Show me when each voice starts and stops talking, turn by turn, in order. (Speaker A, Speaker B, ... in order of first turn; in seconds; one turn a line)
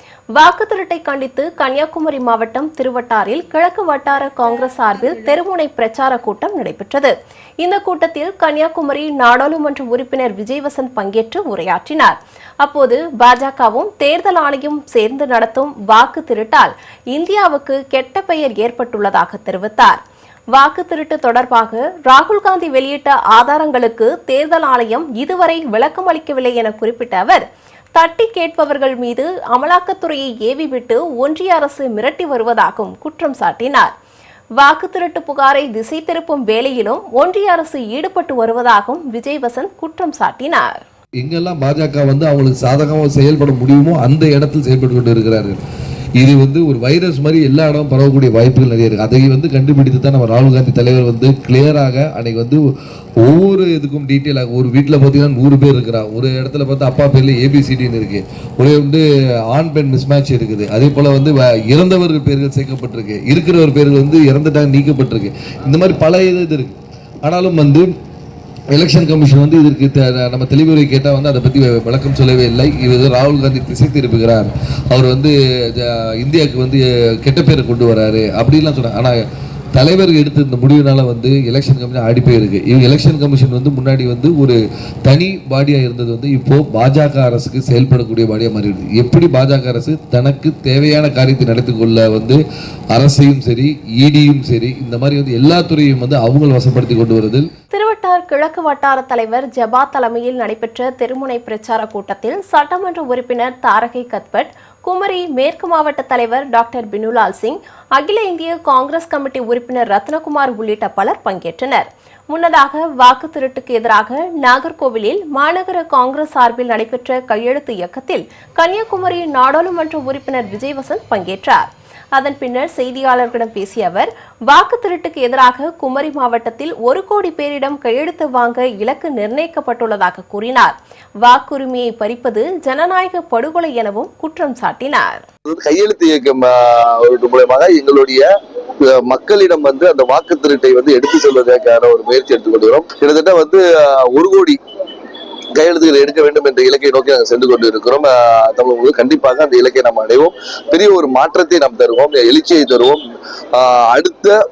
Speaker A: 0.3-20.0
Speaker A: 20.5-27.4
Speaker A: 27.9-33.9
Speaker A: 34.6-40.8
Speaker B: 41.2-45.6
Speaker B: 46.2-52.6
Speaker B: 53.2-67.9
Speaker B: 68.7-79.2
Speaker B: 79.7-92.4
Speaker B: 92.9-97.5
Speaker A: 97.7-135.2
Speaker C: 135.5-136.4
Speaker B: 135.7-136.1
Speaker C: 137.1-138.1
Speaker B: 137.7-138.2
Speaker C: 139.1-143.5
Speaker B: 142.5-143.1
Speaker C: 144.2-144.5
Speaker C: 145.6-148.1
Speaker B: 146.5-146.9
Speaker C: 148.6-150.0
Speaker B: 149.4-150.3
Speaker C: 150.7-151.4
Speaker B: 151.2-153.0
Speaker B: 153.7-154.3